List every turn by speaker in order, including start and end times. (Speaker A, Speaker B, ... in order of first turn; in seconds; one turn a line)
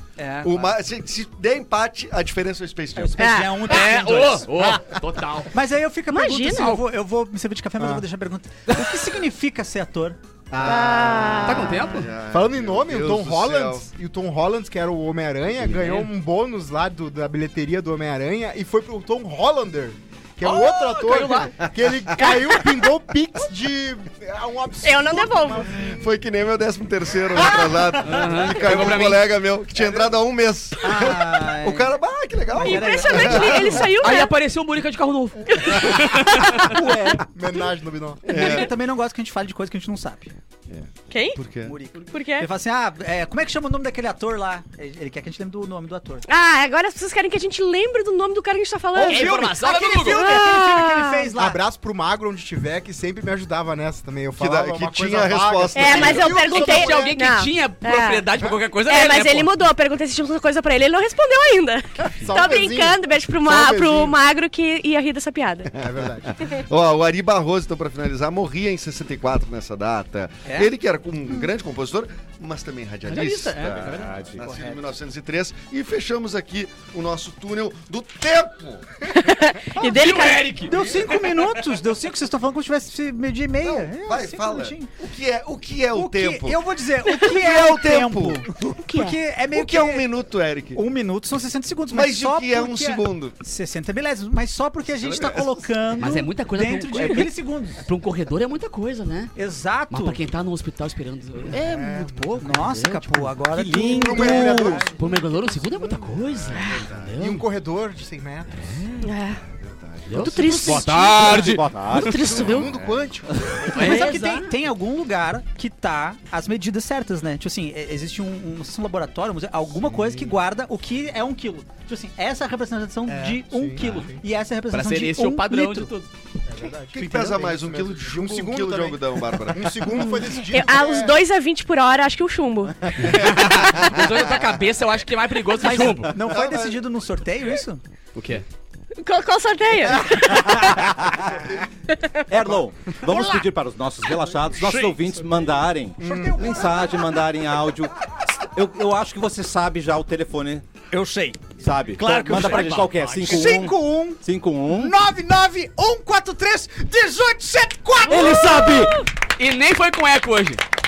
Speaker A: 0.2-0.7
Speaker B: 0.4-3.4
Speaker A: 3.0-4.5
Speaker C: 3.2-3.6
Speaker D: 3.6-5.5
Speaker A: 5.5-10.2
Speaker C: 6.1-6.8
Speaker D: 6.5-6.8
Speaker E: 7.8-8.0
Speaker E: 10.5-11.7
Speaker B: 10.5-13.9
Speaker C: 10.6-11.8
Speaker D: 11.4-12.1
Speaker E: 12.3-26.1
Speaker D: 15.7-16.1
Speaker D: 20.4-21.7
Speaker B: 21.9-22.2
Speaker C: 24.8-25.7
Speaker B: 25.8-33.9
Speaker E: 27.4-27.9
Speaker D: 28.0-29.3
Speaker E: 29.8-30.1
Speaker A: 30.8-31.9
Speaker A: 32.5-33.9
Speaker C: 32.6-34.3
Speaker D: 34.0-36.7
Speaker C: 35.5-36.7
Speaker A: 36.6-37.2
Speaker E: 37.3-38.6
Speaker B: 38.2-38.7
Speaker A: 38.3-40.3
Speaker B: 40.7-41.7
Speaker C: 41.1-41.4
Speaker A: 41.6-46.2
Speaker C: 42.0-42.5
Speaker C: 46.3-49.4
Speaker A: 48.9-51.6
Speaker D: 49.0-50.3
Speaker C: 50.0-51.3
Speaker E: 51.4-57.2
Speaker B: 54.4-56.5
Speaker C: 55.7-58.3
Speaker D: 56.2-59.5
Speaker C: 58.8-65.7
Speaker E: 62.2-64.2
Speaker E: 65.8-66.4
Speaker B: 65.9-78.8
Speaker A: 70.5-70.7
Speaker D: 73.0-74.1
Speaker F: 73.7-74.5
Speaker A: 74.4-74.7
Speaker C: 79.1-80.6
Speaker A: 79.8-84.9
Speaker D: 79.8-81.6
Speaker B: 83.6-86.6
Speaker A: 85.9-90.1
Speaker B: 87.2-88.8
Speaker C: 88.8-89.2
Speaker B: 89.5-90.8
Speaker A: 90.7-97.8
Speaker B: 91.9-93.3
Speaker B: 94.8-95.7
Speaker D: 96.0-99.3
Speaker A: 99.3-100.2
Speaker D: 99.9-103.3
Speaker E: 101.5-102.6
Speaker A: 101.5-104.8
Speaker F: 103.5-104.8
Speaker E: 103.8-106.6
Speaker D: 104.0-107.4
Speaker B: 106.2-107.2
Speaker E: 107.2-108.5
Speaker D: 108.5-109.1
Speaker C: 109.0-109.4
Speaker B: 109.4-110.6
Speaker D: 110.1-111.6
Speaker C: 110.2-112.7
Speaker E: 110.2-113.7
Speaker F: 111.2-112.4
Speaker B: 112.4-113.2
Speaker D: 113.6-114.5
Speaker A: 113.7-125.9
Speaker C: 113.8-114.1
Speaker E: 119.9-120.3
Speaker E: 123.1-124.2
Speaker D: 124.7-126.1
Speaker E: 126.5-131.2
Speaker B: 126.9-130.1
Speaker C: 130.5-133.1
Speaker D: 133.0-136.1
Speaker B: 133.2-134.2
Speaker A: 135.6-137.8
Speaker B: 136.2-136.8
Speaker D: 138.1-138.4
Speaker C: 139.0-140.9
Speaker F: 142.3-147.9
Speaker A: 144.6-144.9
Speaker E: 146.0-146.5
Speaker A: 146.0-146.8
Speaker F: 148.5-150.7
Speaker A: 150.9-158.5
Speaker F: 151.6-154.9
Speaker D: 152.3-153.4
Speaker F: 158.1-159.0
Speaker C: 158.2-158.8
Speaker D: 159.4-160.6